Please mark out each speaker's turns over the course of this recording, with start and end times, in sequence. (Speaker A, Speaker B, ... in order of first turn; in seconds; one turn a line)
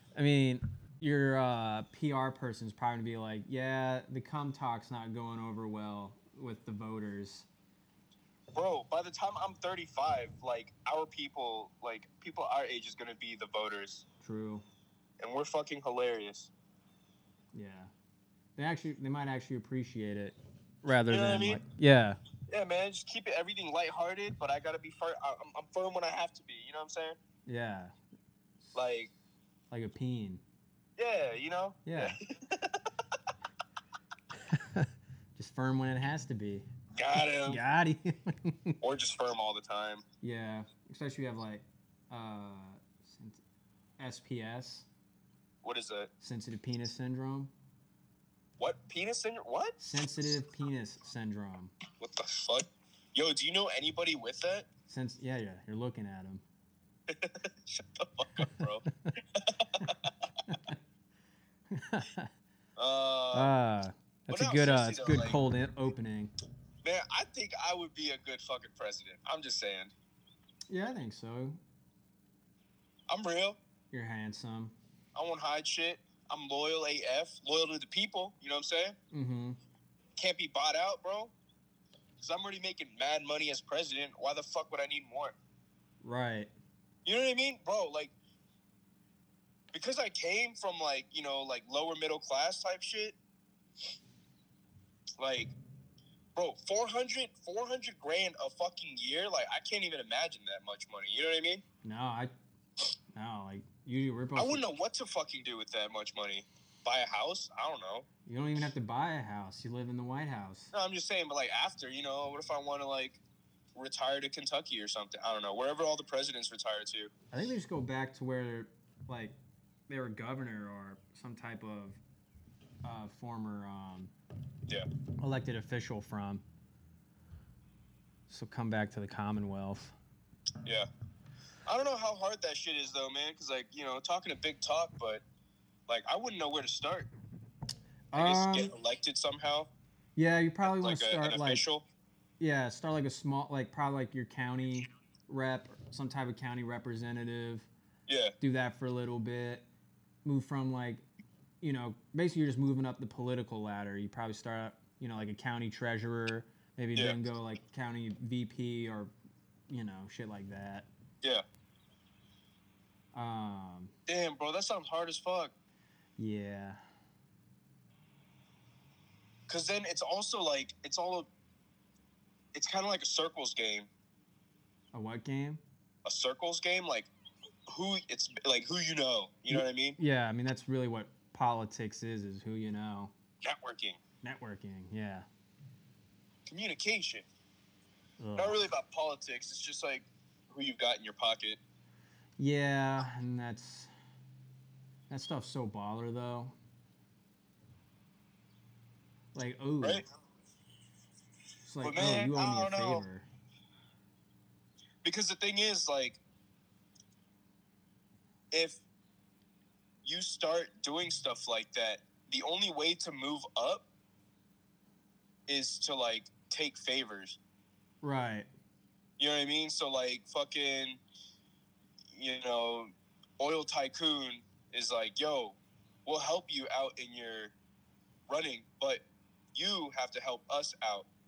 Speaker A: 0.1-7.5
Speaker B: 8.5-14.0
Speaker A: 14.2-14.7
Speaker B: 15.2-16.5
Speaker A: 17.5-17.9
Speaker A: 18.6-22.2
Speaker B: 21.1-21.6
Speaker B: 22.5-27.2
Speaker A: 27.4-27.9
Speaker B: 28.7-29.1
Speaker A: 29.7-30.4
Speaker B: 31.0-32.9
Speaker A: 31.9-32.2
Speaker A: 34.5-36.7
Speaker B: 37.0-37.6
Speaker A: 37.4-38.8
Speaker B: 38.8-40.0
Speaker A: 40.2-43.4
Speaker A: 44.0-44.9
Speaker B: 45.6-46.1
Speaker A: 46.2-47.5
Speaker B: 48.6-49.8
Speaker A: 49.8-51.7
Speaker B: 52.0-54.7
Speaker A: 54.9-56.4
Speaker B: 57.1-60.3
Speaker A: 58.4-59.1
Speaker A: 60.5-60.8
Speaker A: 61.7-62.3
Speaker B: 62.8-63.5
Speaker A: 63.3-66.3
Speaker B: 64.3-65.4
Speaker B: 66.8-69.9
Speaker A: 70.7-71.6
Speaker B: 73.1-73.6
Speaker A: 73.9-74.8
Speaker B: 75.1-79.0
Speaker A: 79.1-79.6
Speaker B: 80.2-81.3
Speaker B: 82.2-85.3
Speaker A: 86.0-86.5
Speaker B: 87.0-88.1
Speaker B: 89.7-93.2
Speaker B: 95.2-95.5
Speaker B: 96.3-101.6
Speaker A: 101.8-102.3
Speaker A: 103.1-104.6
Speaker B: 104.3-108.1
Speaker A: 108.2-110.7
Speaker B: 110.7-113.2
Speaker B: 113.7-117.1
Speaker A: 117.3-119.3
Speaker A: 119.9-122.0
Speaker A: 122.8-124.1
Speaker A: 125.2-126.4
Speaker A: 128.3-129.9
Speaker B: 131.7-135.2
Speaker B: 135.9-137.1
Speaker A: 138.1-138.7
Speaker B: 138.1-139.7
Speaker A: 140.2-141.6
Speaker B: 140.6-141.8
Speaker A: 142.4-147.7
Speaker B: 148.1-148.3
Speaker A: 148.4-149.7
Speaker A: 150.2-151.0
Speaker A: 151.6-159.1
Speaker A: 159.7-160.9
Speaker A: 163.1-163.9
Speaker B: 164.1-165.5
Speaker A: 166.2-166.8
Speaker B: 169.5-171.3
Speaker B: 172.5-173.9
Speaker A: 174.9-175.6
Speaker B: 176.0-177.1
Speaker B: 177.7-180.0
Speaker A: 179.5-183.1
Speaker B: 183.4-184.0
Speaker A: 184.2-185.3
Speaker B: 186.5-187.2
Speaker A: 188.2-188.6
Speaker B: 188.4-191.6
Speaker A: 192.4-193.9
Speaker A: 195.1-196.5
Speaker A: 199.3-200.0
Speaker A: 201.6-203.3
Speaker B: 201.8-203.0
Speaker B: 205.0-206.2
Speaker B: 208.5-208.8
Speaker B: 210.0-213.8
Speaker B: 215.5-217.4
Speaker A: 218.0-218.5
Speaker B: 219.2-221.0
Speaker B: 222.1-227.5
Speaker B: 228.3-231.1